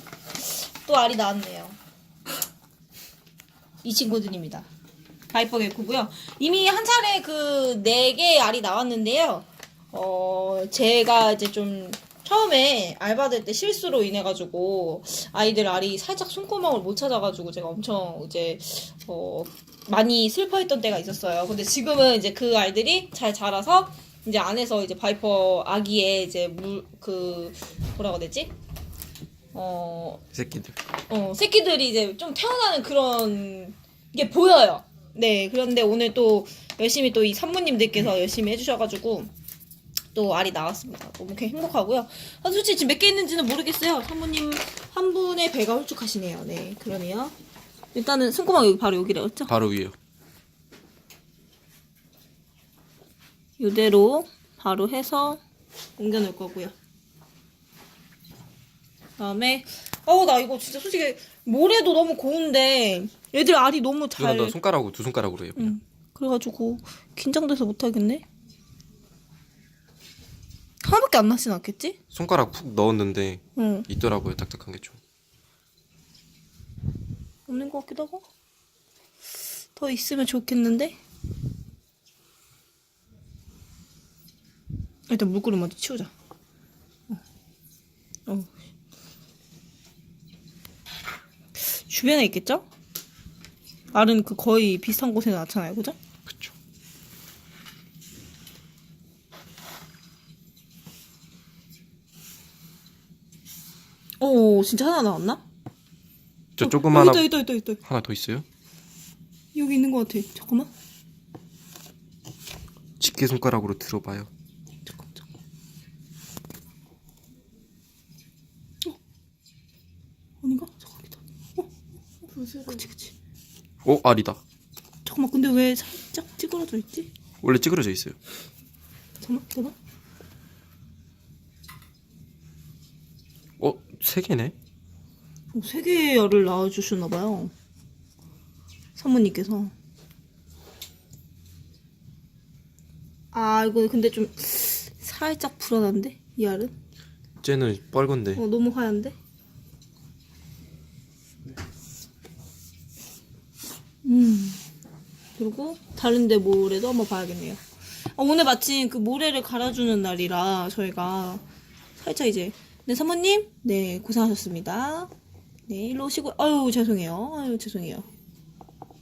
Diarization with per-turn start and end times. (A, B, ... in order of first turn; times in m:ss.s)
0:00.4-0:01.8 A
0:03.8-0:04.7 A
0:05.3-0:28.5 A
0:29.5-0:30.2 A
0:30.3-0:30.8 B
0:31.1-0:39.3 A
0:40.1-0:47.3 A
0:47.9-0:49.5 A
0:49.5-0:49.9 B
0:53.6-0:55.4 A
0:56.0-0:56.7 A
0:59.2-1:04.6 A
1:04.2-1:05.7 B
1:05.6-1:08.2 A
1:10.8-1:12.0 A
1:12.1-1:15.0 B
1:13.6-1:13.9 A
1:17.5-1:18.2 A
1:19.8-1:21.0 A
1:25.1-1:26.1 A
1:31.6-1:32.6 A
1:33.9-1:36.0 A
1:36.2-1:36.5 B
1:44.2-1:45.4 A
1:46.6-1:48.4 B
1:46.6-1:47.8 A
1:49.5-1:50.7 A
1:53.0-1:54.3 B
1:54.9-1:55.2 A
2:00.4-2:01.7 A
2:02.2-2:03.1 A
2:03.8-2:04.4 B
2:05.0-2:07.1 A
2:07.4-2:08.2 B
2:09.2-2:09.7 A
2:13.6-2:14.5 B
2:15.5-2:17.5 A
2:19.0-2:19.7 A
2:23.3-2:26.7 A
2:27.4-2:28.4 B
2:28.3-2:29.1 A
2:34.0-2:34.6 A
2:35.4-2:37.6 A
2:38.1-2:41.4 A
2:42.0-2:45.1 A
2:45.7-2:48.0 A